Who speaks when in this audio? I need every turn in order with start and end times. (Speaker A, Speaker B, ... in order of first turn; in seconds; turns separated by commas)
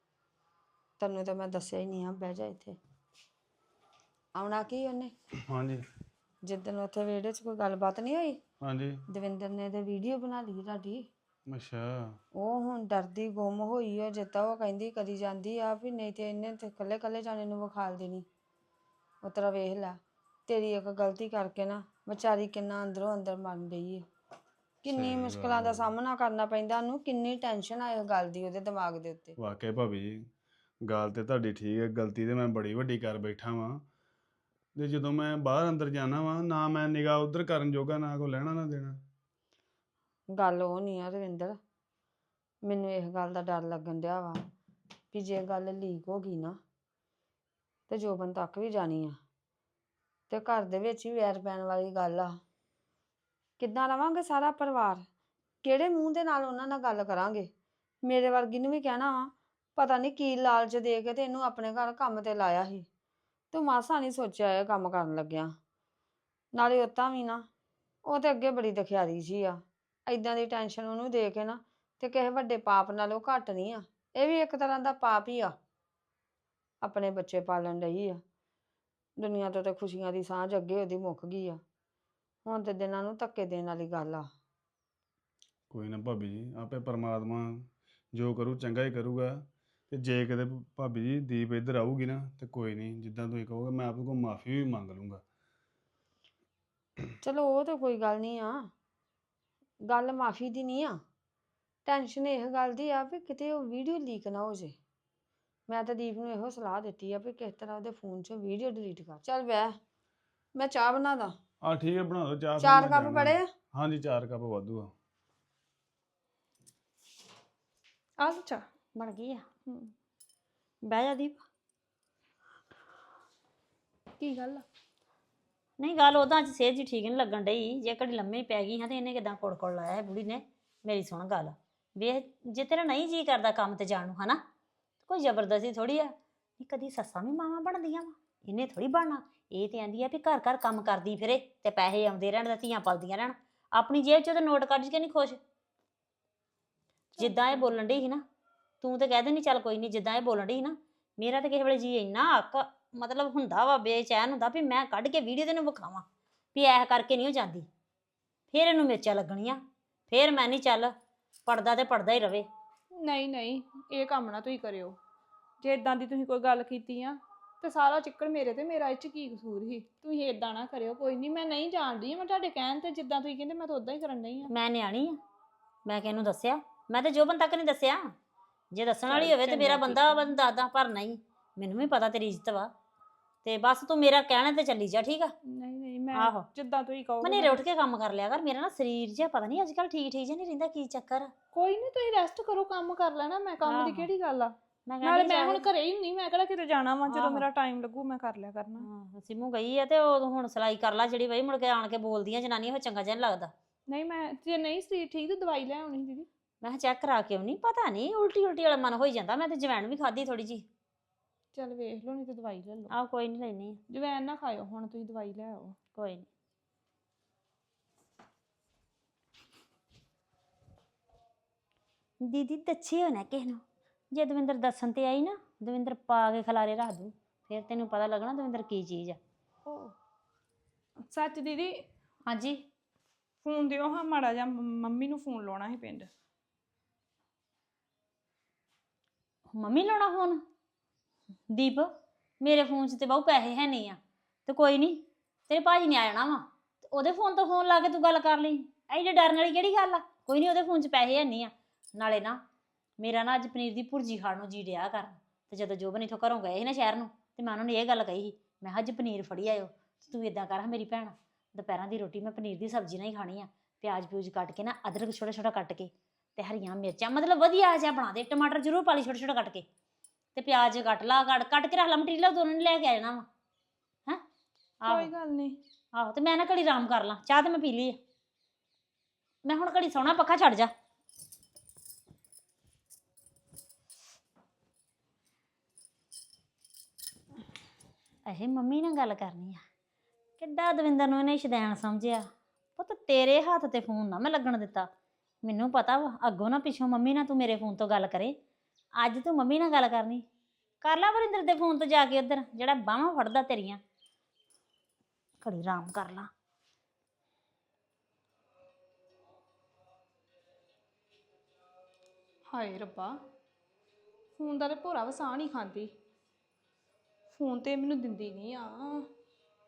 Speaker A: 1.0-2.8, Speaker A: 4.3-5.1, Speaker B: 5.5-5.8, Speaker A: 6.5-8.4, Speaker B: 8.6-9.0, Speaker A: 9.1-11.1, Speaker B: 11.5-12.2, Speaker A: 12.4-18.2, Speaker A: 19.2-24.1, Speaker A: 24.8-29.4, Speaker B: 24.9-25.9, Speaker B: 29.4-30.2, Speaker B: 30.8-33.8, Speaker B: 34.8-39.0, Speaker A: 40.3-41.6, Speaker A: 42.6-44.4, Speaker A: 45.1-46.6, Speaker A: 47.9-49.2, Speaker A: 50.3-52.4, Speaker A: 53.6-55.0, Speaker A: 55.6-57.5, Speaker A: 58.1-62.9, Speaker A: 63.5-65.5, Speaker A: 66.6-67.4, Speaker A: 68.1-75.5, Speaker A: 76.8-78.2, Speaker A: 79.2-81.6, Speaker A: 82.5-84.2, Speaker B: 85.7-95.2, Speaker A: 97.2-98.7, Speaker A: 99.9-101.0, Speaker A: 101.8-104.7, Speaker A: 105.7-109.8, Speaker A: 110.6-111.3, Speaker B: 111.6-114.9, Speaker A: 112.6-113.5, Speaker C: 118.2-118.6, Speaker D: 119.0-119.4, Speaker D: 120.8-121.4, Speaker C: 124.2-124.7, Speaker D: 125.8-134.4, Speaker D: 135.1-145.4, Speaker C: 147.2-147.7, Speaker D: 147.2-148.2, Speaker D: 148.8-157.7, Speaker D: 158.5-160.9, Speaker D: 161.4-162.5, Speaker C: 163.0-165.0, Speaker C: 165.6-174.5, Speaker D: 174.5-175.2, Speaker D: 175.8-178.0, Speaker D: 178.7-182.7, Speaker C: 179.1-180.2, Speaker D: 183.4-185.3, Speaker C: 185.5-187.6, Speaker D: 186.2-186.4, Speaker D: 187.2-191.3, Speaker C: 191.5-198.8, Speaker D: 193.7-194.1, Speaker D: 194.9-195.6, Speaker D: 197.1-197.4, Speaker D: 198.8-203.5, Speaker C: 203.9-206.3, Speaker D: 206.6-210.7, Speaker C: 211.6-212.9, Speaker D: 212.9-213.8, Speaker C: 213.9-215.8, Speaker D: 215.9-216.3, Speaker D: 222.2-223.6, Speaker D: 224.1-229.2, Speaker C: 229.7-229.9, Speaker C: 231.1-231.7, Speaker D: 232.2-232.6, Speaker C: 233.4-236.1, Speaker D: 239.5-240.4, Speaker D: 241.5-241.9, Speaker D: 242.4-252.4, Speaker D: 253.0-269.6, Speaker D: 270.3-273.3, Speaker D: 274.8-275.1, Speaker C: 274.8-275.6, Speaker D: 275.9-278.0, Speaker D: 279.4-280.7, Speaker D: 288.2-289.6, Speaker D: 290.4-292.2, Speaker D: 292.8-294.9, Speaker D: 295.4-298.3, Speaker D: 299.0-300.2, Speaker D: 300.8-303.8, Speaker D: 305.4-306.3, Speaker C: 312.5-313.2, Speaker C: 314.4-315.9, Speaker C: 317.3-319.1